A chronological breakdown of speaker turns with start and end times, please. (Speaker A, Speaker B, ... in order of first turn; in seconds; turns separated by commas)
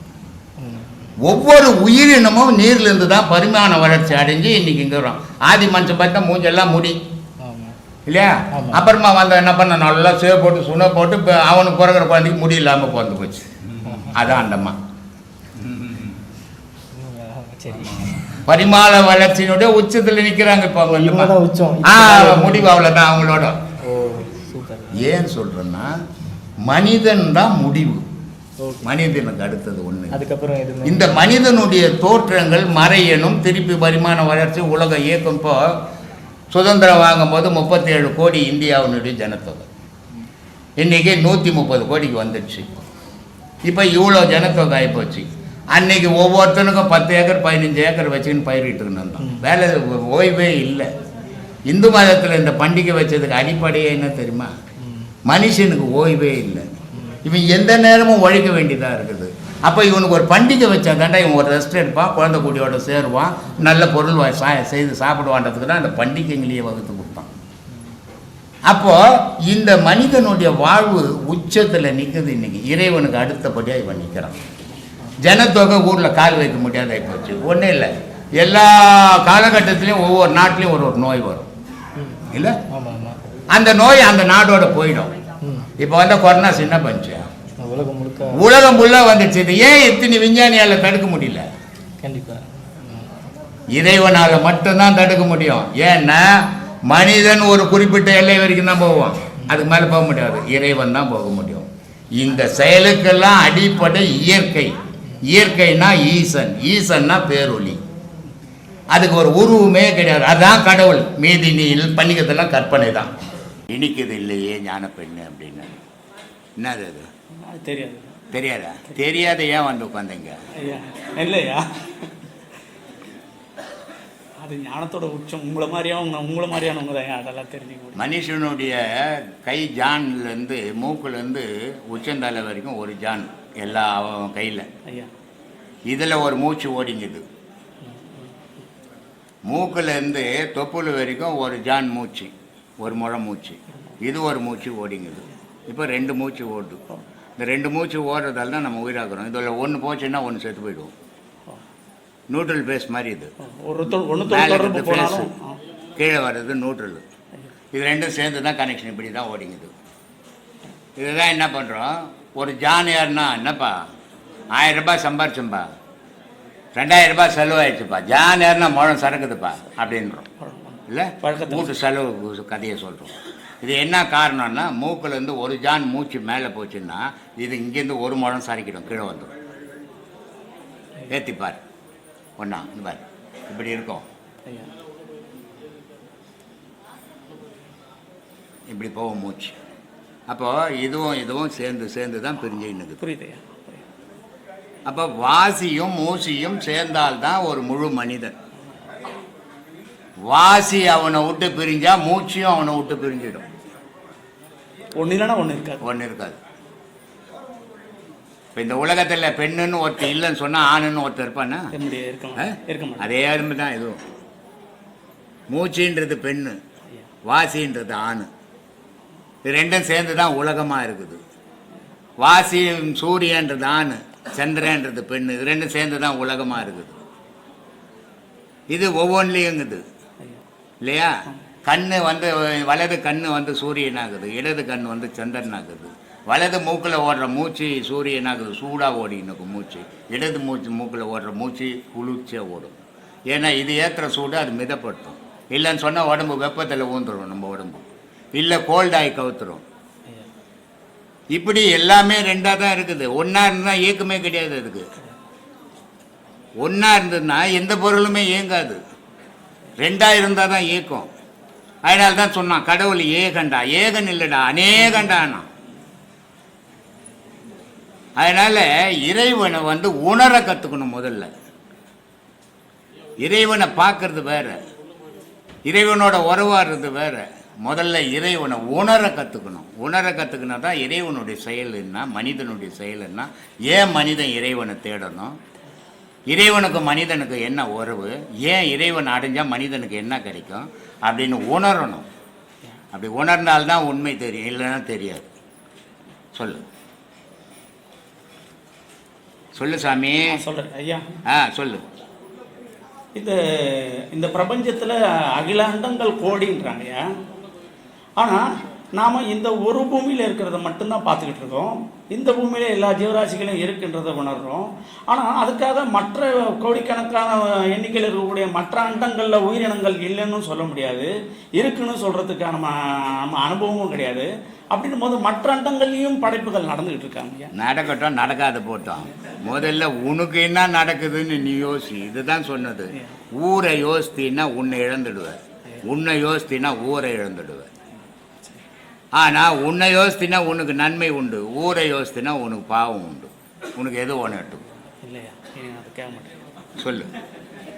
Speaker A: 0.6-1.1, Speaker B: 1.2-7.0, Speaker A: 7.4-7.8, Speaker B: 8.1-13.5, Speaker A: 8.5-8.9, Speaker A: 13.8-14.2, Speaker B: 14.0-14.8, Speaker A: 16.9-18.4, Speaker B: 18.4-23.6, Speaker A: 20.9-22.8, Speaker A: 23.8-25.0, Speaker B: 24.9-25.9, Speaker B: 26.6-28.1, Speaker A: 28.6-28.9, Speaker B: 28.8-30.2, Speaker A: 30.1-31.1, Speaker B: 30.8-35.9, Speaker B: 36.5-39.7, Speaker B: 40.8-42.9, Speaker B: 43.7-50.9, Speaker B: 51.7-54.5, Speaker A: 54.9-55.1, Speaker B: 55.3-56.7, Speaker B: 57.2-67.3, Speaker B: 68.7-74.4, Speaker B: 75.2-81.5, Speaker A: 82.0-83.2, Speaker B: 82.3-82.6, Speaker B: 83.5-85.2, Speaker A: 85.4-85.7, Speaker B: 85.8-87.3, Speaker A: 87.6-88.4, Speaker B: 88.3-91.5, Speaker A: 92.0-93.1, Speaker B: 93.7-107.8, Speaker B: 108.9-113.2, Speaker B: 113.7-115.7, Speaker B: 116.6-117.1, Speaker C: 117.4-118.2, Speaker B: 118.3-120.4, Speaker C: 120.6-122.1, Speaker C: 124.4-128.0, Speaker B: 128.0-134.7, Speaker C: 134.9-135.1, Speaker B: 135.9-137.2, Speaker C: 137.8-138.3, Speaker B: 139.5-146.8, Speaker B: 147.4-150.9, Speaker B: 152.3-153.3, Speaker C: 153.4-155.6, Speaker B: 154.3-155.3, Speaker B: 156.0-157.0, Speaker B: 157.7-159.7, Speaker B: 161.0-163.8, Speaker B: 164.5-165.7, Speaker B: 166.8-170.3, Speaker C: 170.4-171.7, Speaker B: 170.9-179.3, Speaker B: 181.1-181.6, Speaker B: 182.4-184.1, Speaker B: 188.7-189.6, Speaker B: 190.3-193.0, Speaker C: 193.0-193.8, Speaker B: 194.9-198.4, Speaker B: 200.3-203.5, Speaker C: 205.0-205.8, Speaker B: 205.8-206.4, Speaker B: 208.6-211.7, Speaker C: 211.7-213.1, Speaker B: 212.4-214.0, Speaker B: 215.5-216.6, Speaker B: 217.2-218.3, Speaker B: 219.4-221.2, Speaker B: 222.2-227.0, Speaker B: 228.7-229.8, Speaker B: 230.8-249.6, Speaker B: 251.3-254.9, Speaker B: 256.6-258.8, Speaker B: 259.8-261.1, Speaker B: 261.9-265.5, Speaker B: 268.2-271.3, Speaker B: 273.2-274.6, Speaker B: 275.7-285.4, Speaker B: 286.3-292.1, Speaker B: 292.9-295.3, Speaker B: 296.4-296.6, Speaker B: 299.6-300.4, Speaker C: 300.3-301.1, Speaker B: 301.3-301.9, Speaker C: 303.1-307.1, Speaker C: 308.2-327.5, Speaker B: 327.5-337.7, Speaker B: 339.1-344.6, Speaker C: 345.0-346.4, Speaker B: 346.8-347.1